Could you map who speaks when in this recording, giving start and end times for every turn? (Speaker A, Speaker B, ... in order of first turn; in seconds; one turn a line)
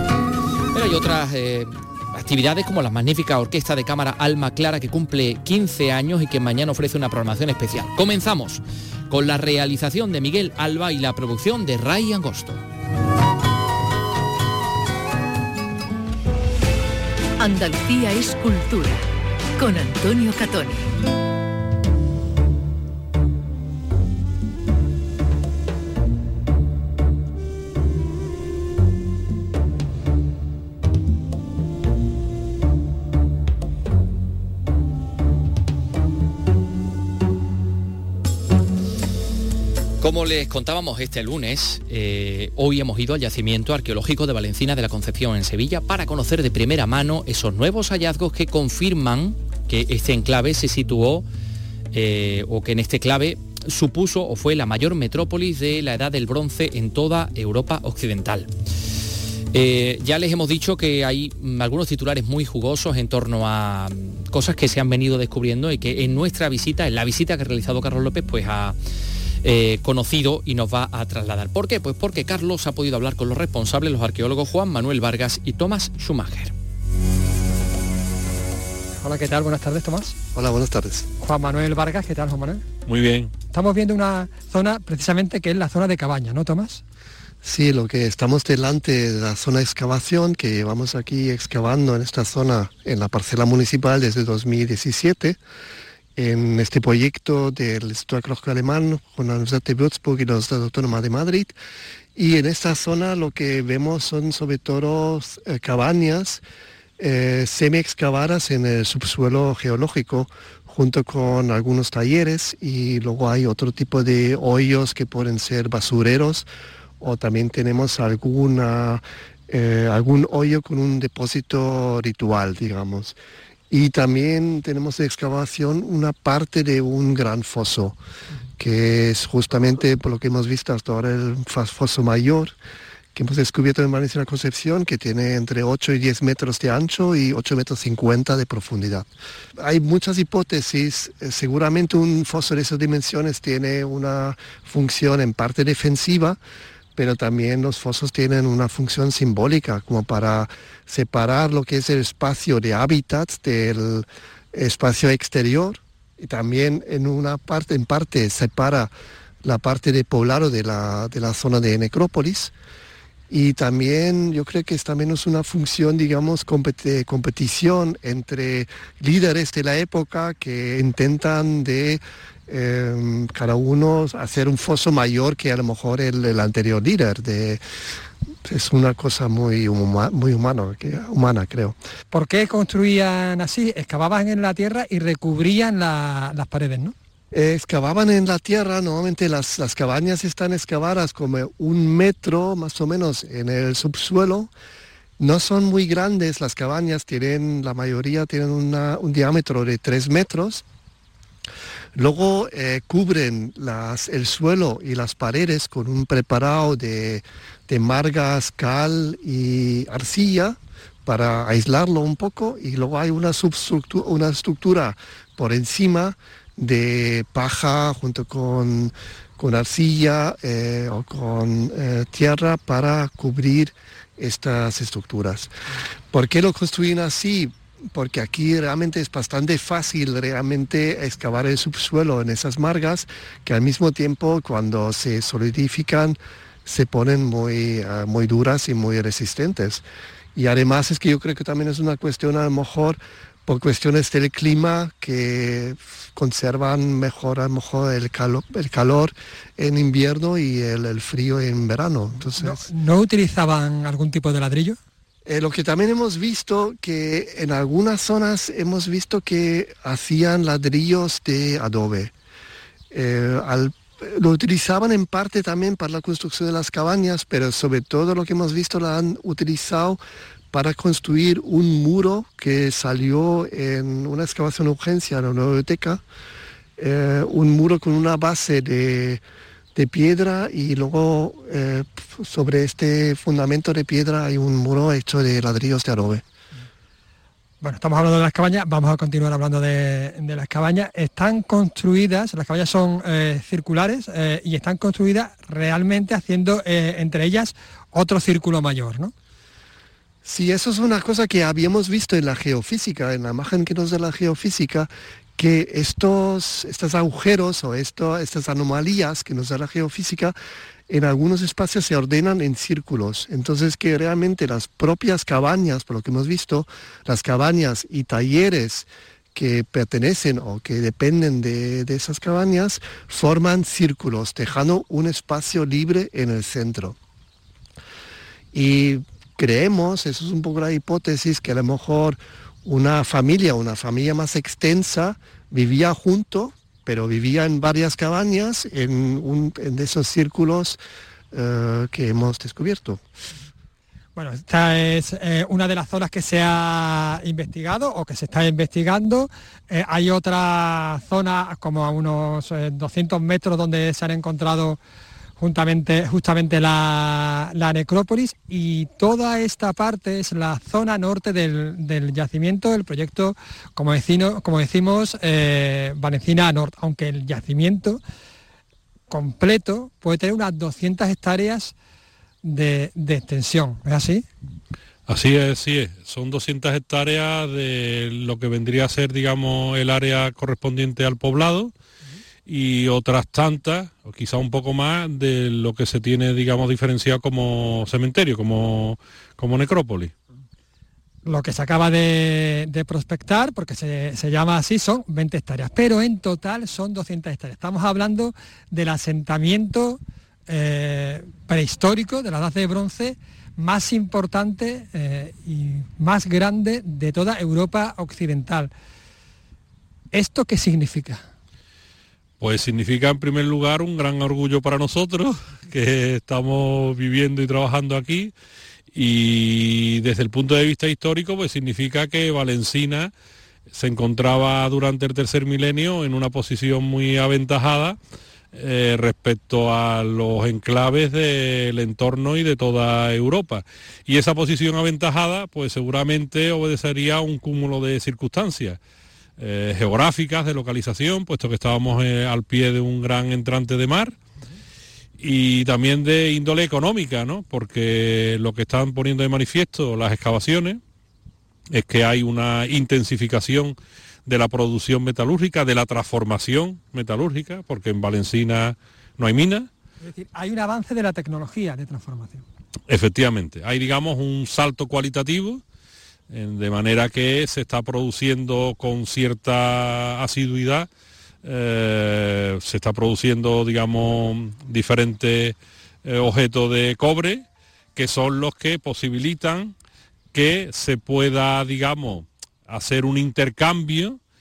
Speaker A: 0.7-12.6
Speaker B: 17.4-20.8
Speaker A: 40.0-51.2
Speaker A: 51.9-58.5
Speaker A: 59.5-68.8
Speaker A: 69.4-76.5
Speaker C: 79.0-80.1
Speaker D: 80.3-81.1
Speaker C: 81.2-82.6
Speaker E: 82.9-83.3
Speaker C: 83.5-86.8
Speaker D: 87.4-95.4
Speaker D: 96.2-101.5
Speaker D: 102.1-106.4
Speaker D: 107.0-116.5
Speaker D: 117.0-123.2
Speaker D: 123.7-128.0
Speaker D: 128.6-132.6
Speaker D: 133.1-146.4
Speaker D: 146.9-158.9
Speaker D: 159.4-162.5
Speaker D: 163.3-177.6
Speaker D: 178.4-181.8
Speaker C: 182.1-186.9
Speaker D: 187.3-194.5
Speaker D: 195.2-200.6
Speaker D: 201.9-225.5
Speaker D: 226.1-239.8
Speaker D: 240.3-252.6
Speaker C: 252.4-254.8
Speaker D: 255.2-262.1
Speaker D: 262.9-270.0
Speaker D: 270.5-276.0
Speaker D: 276.8-279.2
Speaker D: 279.7-286.2
Speaker C: 287.6-299.1
Speaker D: 300.2-310.3
Speaker D: 310.9-327.0
Speaker D: 328.5-340.8
Speaker D: 341.3-343.0
Speaker C: 344.1-354.8
Speaker C: 355.4-368.0
Speaker C: 369.1-371.7
Speaker C: 372.4-374.2
Speaker E: 375.1-381.7
Speaker E: 382.4-390.1
Speaker C: 391.2-408.7
Speaker C: 410.1-411.2
Speaker E: 412.4-418.3
Speaker E: 418.9-423.1
Speaker E: 423.7-428.0
Speaker E: 428.5-438.8
Speaker E: 439.4-444.1
Speaker E: 445.2-450.8
Speaker E: 451.7-459.7
Speaker C: 460.0-462.4
Speaker E: 462.9-465.6
Speaker E: 466.3-470.9
Speaker E: 471.4-477.4
Speaker E: 477.9-479.7
Speaker E: 480.3-484.2